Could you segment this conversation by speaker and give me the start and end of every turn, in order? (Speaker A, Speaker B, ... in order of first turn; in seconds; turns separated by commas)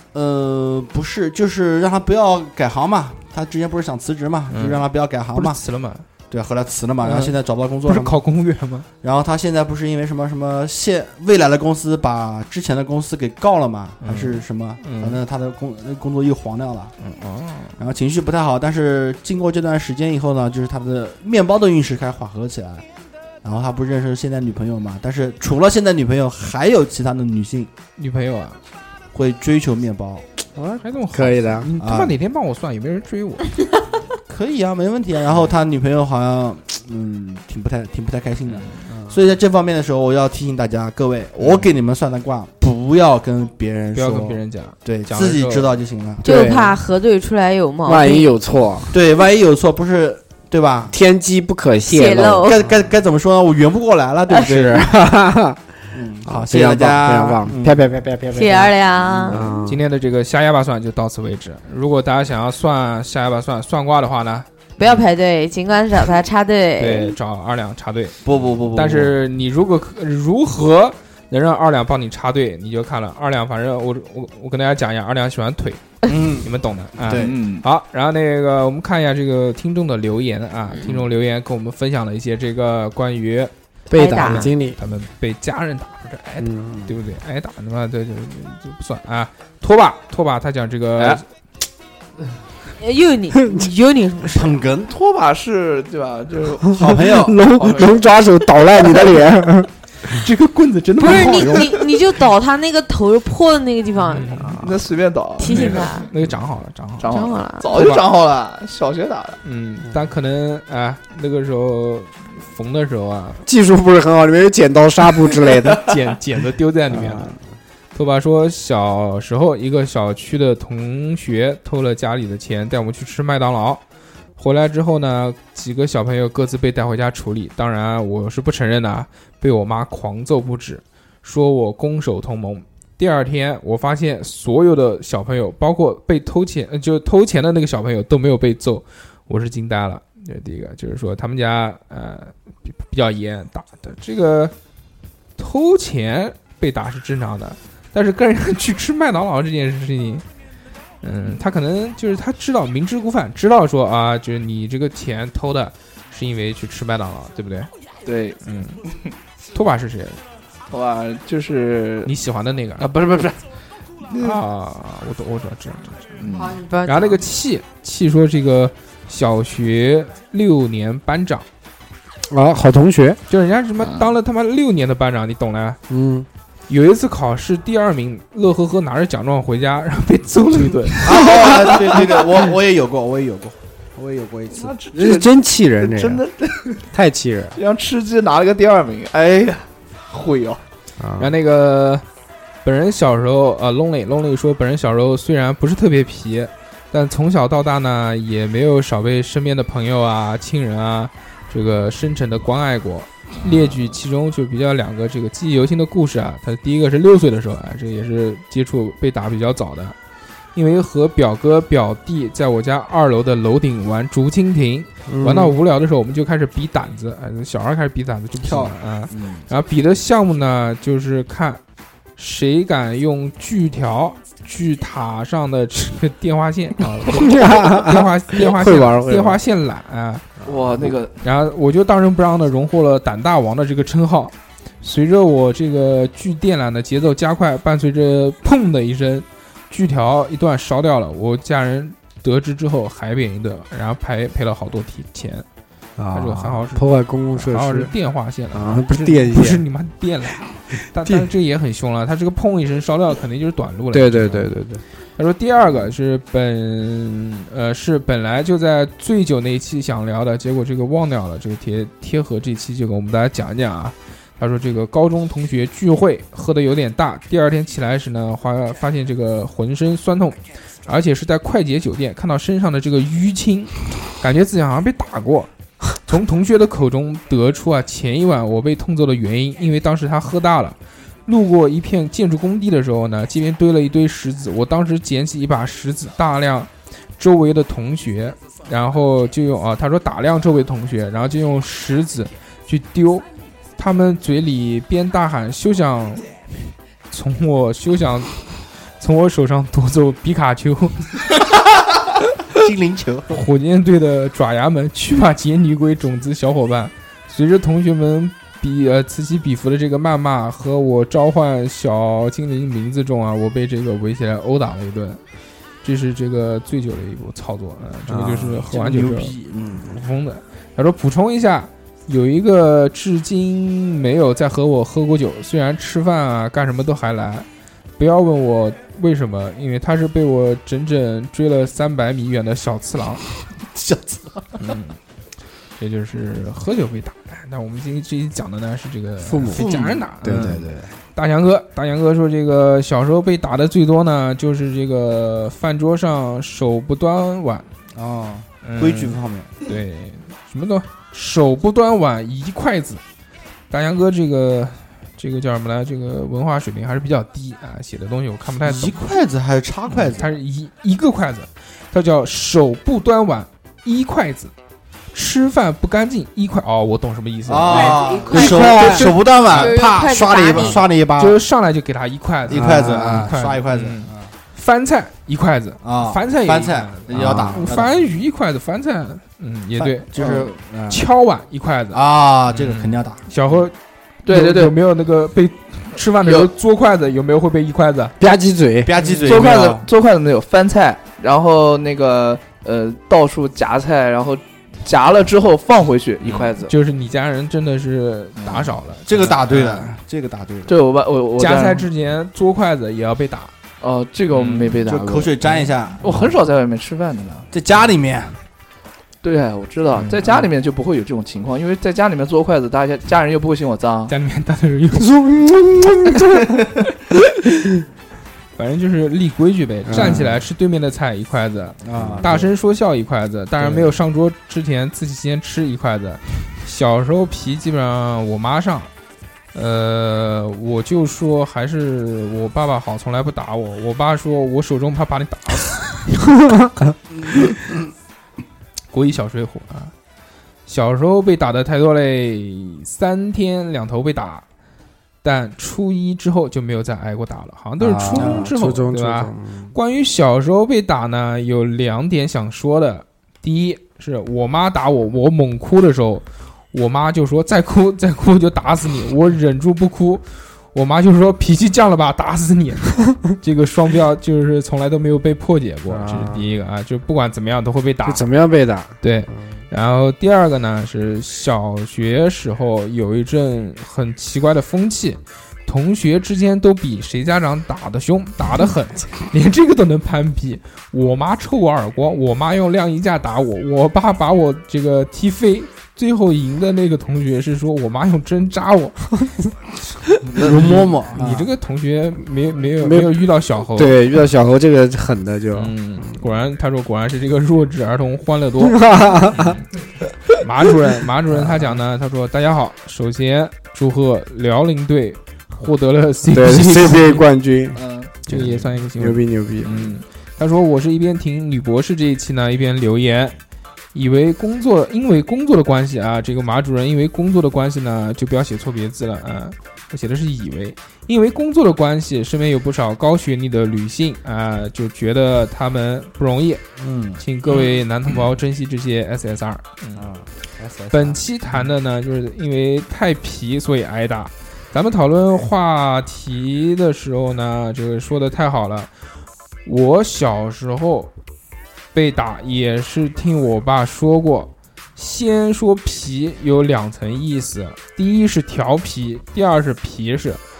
Speaker A: 0.1-5.6, Speaker B: 4.5-6.1, Speaker A: 6.3-8.2, Speaker B: 7.0-8.9, Speaker A: 9.0-16.9, Speaker B: 14.0-15.2, Speaker B: 17.0-17.8, Speaker A: 17.8-22.9, Speaker A: 23.4-27.7, Speaker B: 28.0-28.6, Speaker A: 29.1-30.3, Speaker C: 30.6-31.7, Speaker B: 30.8-33.6, Speaker A: 31.8-32.1, Speaker A: 34.3-46.3, Speaker C: 38.9-39.2, Speaker B: 43.9-45.8, Speaker C: 46.2-46.8, Speaker D: 46.2-48.3, Speaker C: 47.9-49.0, Speaker A: 48.9-50.9, Speaker C: 50.9-52.6, Speaker D: 51.9-52.6, Speaker A: 52.4-54.9, Speaker C: 54.3-55.6, Speaker A: 55.9-57.8, Speaker C: 56.3-58.7, Speaker D: 58.3-59.4, Speaker A: 58.9-59.5, Speaker C: 59.3-59.8, Speaker B: 59.7-64.5, Speaker D: 64.8-67.2, Speaker B: 66.8-68.2, Speaker A: 68.2-69.2, Speaker B: 68.7-83.5, Speaker A: 76.1-77.3, Speaker E: 77.1-77.7, Speaker C: 83.9-84.8, Speaker D: 83.9-84.5, Speaker B: 84.1-91.2, Speaker C: 86.4-86.9, Speaker D: 92.8-94.6, Speaker A: 94.3-94.9, Speaker E: 94.9-98.0, Speaker C: 96.7-100.2, Speaker A: 96.7-97.4, Speaker B: 100.1-101.8, Speaker D: 101.0-104.6, Speaker B: 104.0-104.6, Speaker E: 104.6-106.1, Speaker D: 105.4-106.1, Speaker B: 105.5-107.1, Speaker E: 107.0-109.4, Speaker D: 107.1-107.7, Speaker B: 107.7-108.0, Speaker B: 109.4-113.4, Speaker C: 113.5-115.9, Speaker B: 115.8-117.4, Speaker C: 116.9-117.4, Speaker B: 117.9-123.8, Speaker B: 124.4-144.5, Speaker B: 145.4-150.2, Speaker B: 151.0-157.7, Speaker E: 158.1-158.4, Speaker B: 158.4-158.8, Speaker B: 159.5-160.2, Speaker E: 160.7-162.1, Speaker B: 162.1-162.9, Speaker E: 162.8-163.4, Speaker E: 164.1-164.4, Speaker B: 164.2-166.2, Speaker E: 166.2-166.6, Speaker D: 166.3-167.2, Speaker B: 166.8-171.5, Speaker C: 172.3-173.2, Speaker B: 173.3-175.8, Speaker E: 173.8-174.1, Speaker C: 175.9-176.3, Speaker B: 176.7-181.5, Speaker A: 181.0-184.8, Speaker E: 181.3-182.2, Speaker E: 184.5-186.8, Speaker C: 184.9-186.2, Speaker C: 186.9-187.6, Speaker E: 187.6-190.6, Speaker C: 191.0-191.3, Speaker B: 191.2-192.1, Speaker B: 192.6-210.0, Speaker B: 210.6-221.6, Speaker C: 215.1-215.6, Speaker A: 218.4-219.5, Speaker B: 222.2-230.4, Speaker C: 227.1-229.4, Speaker E: 230.4-231.2, Speaker B: 231.2-245.4, Speaker C: 246.0-247.9, Speaker B: 246.1-254.5, Speaker C: 248.5-249.6, Speaker C: 253.9-254.8, Speaker B: 255.2-293.2, Speaker B: 293.8-296.3, Speaker B: 297.1-298.4, Speaker B: 299.0-301.3, Speaker A: 302.5-303.4, Speaker B: 303.3-315.2, Speaker B: 315.8-327.5, Speaker C: 318.1-318.6, Speaker A: 318.2-319.9, Speaker B: 328.0-333.2, Speaker A: 333.7-334.7, Speaker B: 334.6-335.0, Speaker B: 335.8-347.7, Speaker C: 339.2-340.9, Speaker A: 339.5-340.5, Speaker A: 347.9-349.5, Speaker B: 348.6-353.0, Speaker B: 353.7-359.0, Speaker A: 358.6-360.3, Speaker B: 359.9-364.5, Speaker B: 365.1-369.7, Speaker A: 367.5-371.4, Speaker D: 367.7-368.9, Speaker C: 368.3-369.2, Speaker D: 369.5-370.9, Speaker B: 370.6-383.8, Speaker A: 372.5-374.3, Speaker A: 375.8-378.0, Speaker C: 377.1-377.8, Speaker A: 379.8-381.1, Speaker A: 381.9-383.2, Speaker E: 384.3-384.8, Speaker B: 384.3-388.2, Speaker E: 386.2-386.5, Speaker C: 388.2-388.9, Speaker A: 388.8-389.9, Speaker E: 389.0-396.7, Speaker B: 396.2-399.9, Speaker E: 398.4-398.7, Speaker A: 399.1-400.7, Speaker E: 400.7-401.9, Speaker B: 401.4-403.5, Speaker E: 403.8-407.5, Speaker B: 404.3-404.8, Speaker A: 404.8-406.1, Speaker A: 407.5-408.4, Speaker E: 409.2-414.1, Speaker B: 410.0-410.3, Speaker B: 414.1-415.1, Speaker C: 414.9-416.7, Speaker B: 418.6-428.9, Speaker C: 419.9-420.4, Speaker A: 421.8-422.4, Speaker C: 421.9-422.4, Speaker C: 423.6-423.9, Speaker B: 429.5-436.1, Speaker C: 436.4-436.7, Speaker A: 437.3-437.7, Speaker B: 438.9-439.9, Speaker B: 440.7-444.4, Speaker B: 445.2-468.2, Speaker C: 447.8-449.8, Speaker A: 448.0-448.4, Speaker C: 465.9-466.4, Speaker C: 468.1-469.6, Speaker B: 469.0-489.1, Speaker A: 490.3-491.4, Speaker B: 490.4-494.0, Speaker C: 491.1-491.5, Speaker C: 492.8-495.8, Speaker B: 495.6-499.6, Speaker C: 498.6-499.6, Speaker B: 500.4-507.2, Speaker C: 501.4-501.7, Speaker C: 506.3-509.9, Speaker E: 507.7-508.1, Speaker B: 508.3-513.4, Speaker B: 513.9-526.6, Speaker A: 526.8-527.2, Speaker B: 527.2-530.0, Speaker A: 530.0-531.2, Speaker B: 530.9-538.9, Speaker B: 539.6-541.1, Speaker B: 541.9-550.4